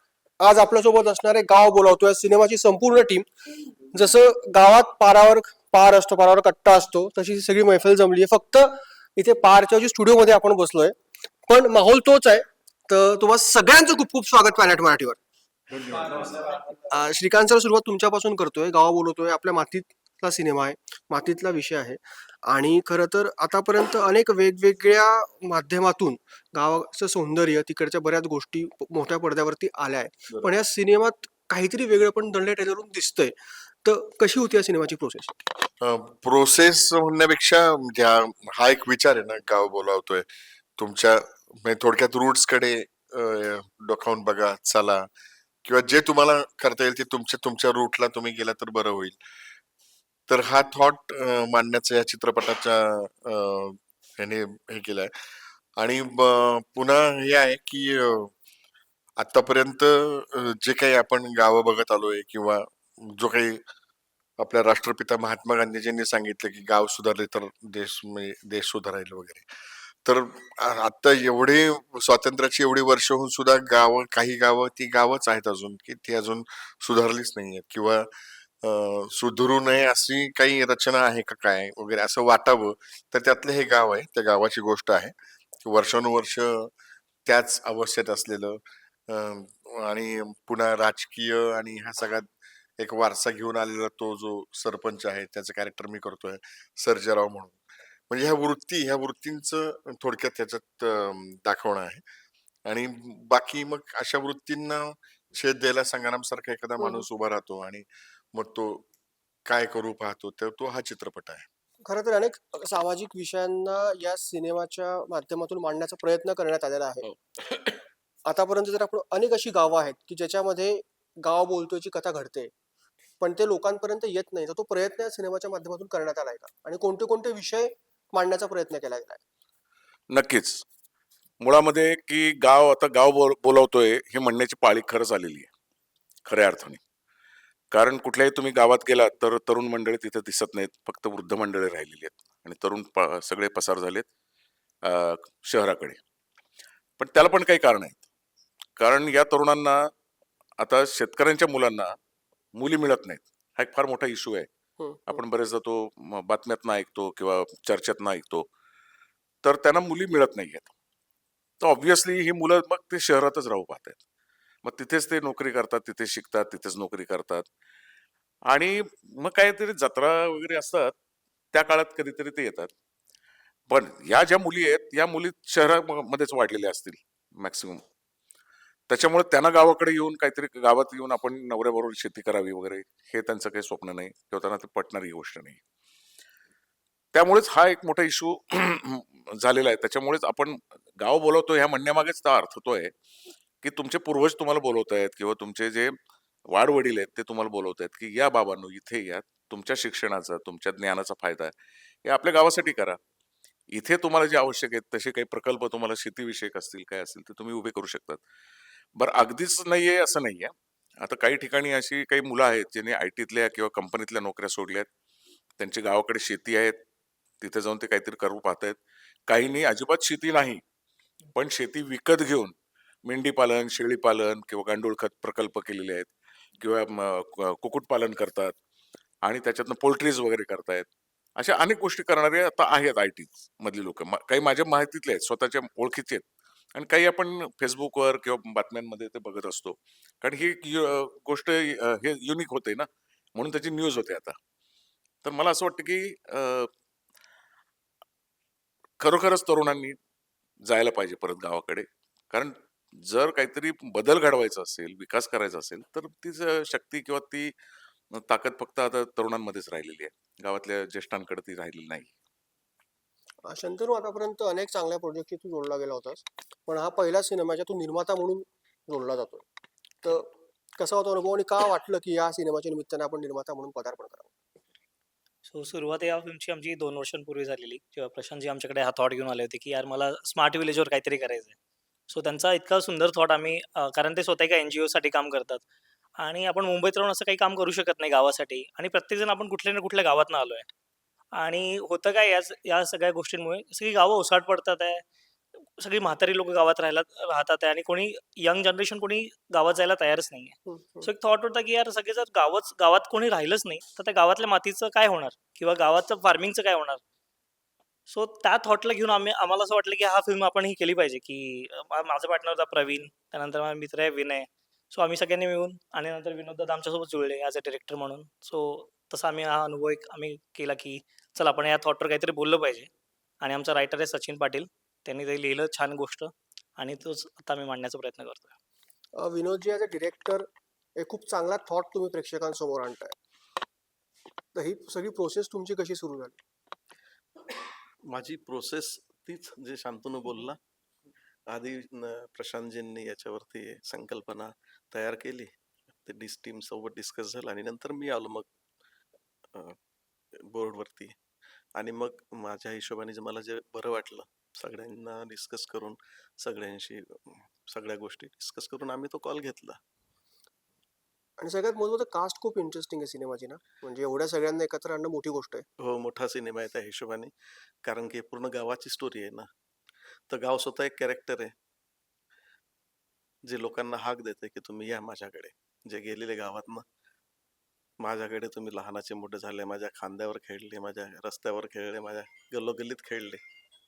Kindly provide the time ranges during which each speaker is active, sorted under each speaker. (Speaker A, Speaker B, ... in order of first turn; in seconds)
Speaker A: 0.4-3.3, 3.9-15.2, 16.4-35.4, 106.8-107.0, 111.8-117.0, 118.2-122.5, 123.2-129.2, 154.8-155.2, 263.4-269.4, 270.0-274.3, 300.7-301.1, 329.1-330.5, 331.0-333.1, 334.5-336.4, 361.4-365.6
Speaker B: 35.8-40.2, 40.8-45.1, 45.6-49.2, 50.3-55.1, 55.8-58.3, 59.2-63.6, 64.4-69.4, 70.0-78.1, 78.6-85.1, 85.6-86.7, 87.2-92.3, 92.8-97.6, 98.1-102.0, 102.7-108.8, 109.5-111.4
Speaker C: 117.0-117.8, 130.1-130.6, 131.4-135.5, 136.2-136.8, 137.7-144.1, 144.8-146.0, 147.0-148.0, 148.8-149.9, 150.6-151.9, 152.6-154.5, 155.1-158.5, 159.4-160.7, 161.6-164.0, 164.6-167.4, 168.5-170.9, 171.5-172.7, 173.7-177.8, 178.9-185.6, 187.1-192.9, 193.6-195.9, 196.5-201.5, 202.0-203.0, 203.7-208.2, 209.0-214.9, 215.6-216.8, 217.4-220.6, 221.3-228.5, 229.2-244.3, 245.2-246.7, 249.0-250.0, 250.7-257.5, 258.1-262.1
Speaker D: 275.5-281.5, 282.1-285.6, 286.2-290.7, 291.3-295.0, 295.8-307.0, 308.1-322.9, 323.4-328.5
Speaker E: 338.1-340.6, 341.5-348.5, 350.5-351.1, 351.8-359.8, 365.8-367.3, 367.8-369.5, 370.3-371.5, 373.5-376.8, 378.0-383.4